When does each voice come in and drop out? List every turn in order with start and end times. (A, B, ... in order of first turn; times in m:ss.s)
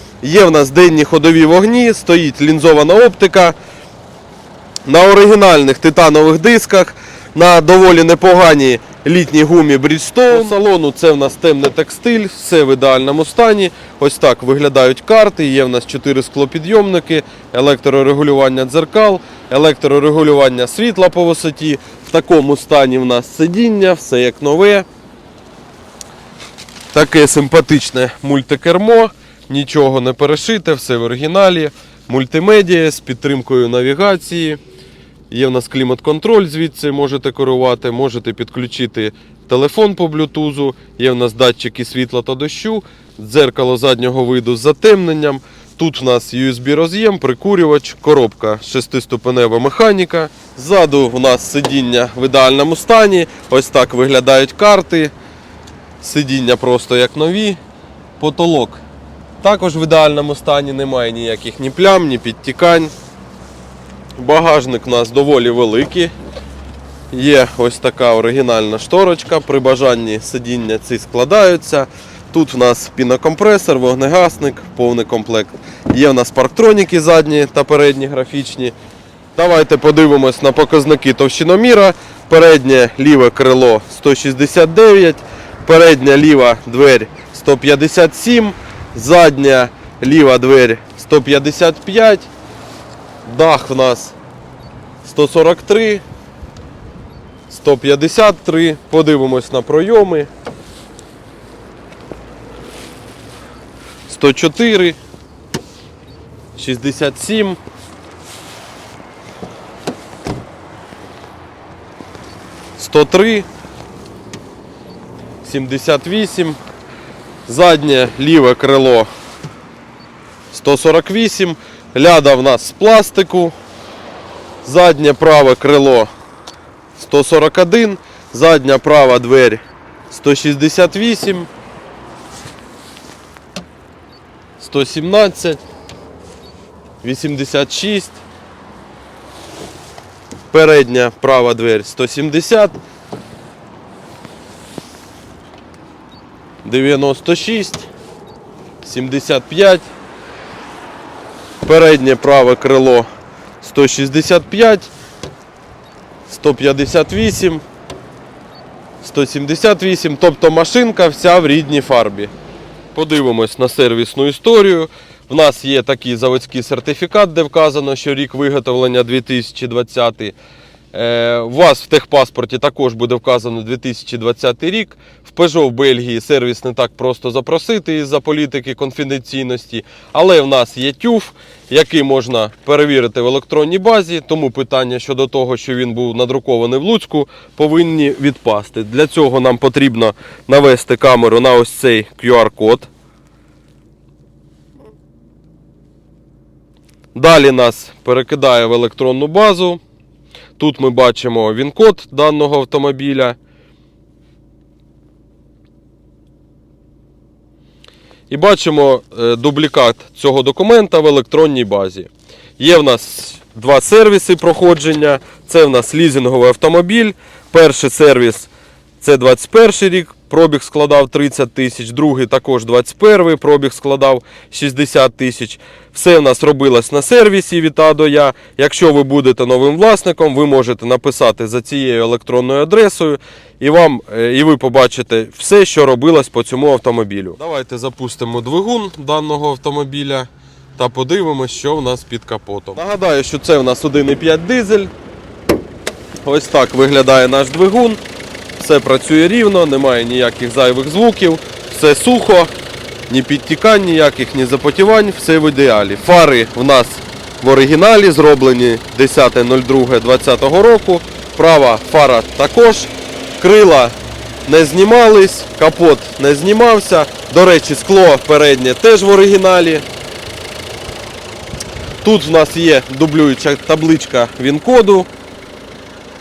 0:00.2-0:03.6 A
0:04.9-0:24.9 A
0:26.9-0:34.6 A
0:35.3-0:55.1 A
0:56.0-0:57.6 A
0:58.2-0:58.8 A
0:59.4-1:02.9 A
1:04.2-1:06.1 A
1:07.1-1:18.7 A
1:19.4-1:32.3 A
1:33.2-1:34.2 A
1:35.0-1:36.0 A
1:37.5-1:40.3 A
1:44.1-1:45.0 A
1:46.6-1:47.6 A
1:52.8-1:53.5 A
1:55.4-1:56.6 A
1:57.5-1:59.1 A
2:00.5-2:03.5 A
2:04.6-2:06.1 A
2:07.0-2:11.5 A
2:14.6-2:15.6 A
2:17.0-2:18.2 A
2:20.5-2:22.8 A
2:26.6-2:27.9 A
2:28.8-2:29.9 A
2:31.6-2:33.1 A
2:33.6-2:34.9 A
2:36.3-2:37.6 A
2:39.0-2:42.3 A
2:42.9-2:50.4 A
2:50.9-3:12.9 A
3:17.2-3:19.8 A
3:20.6-3:23.4 A
3:28.3-4:04.9 A
4:06.2-4:08.0 A
4:08.6-4:12.5 A
4:13.1-4:24.0 A
4:24.5-4:29.8 A
4:32.0-4:35.1 A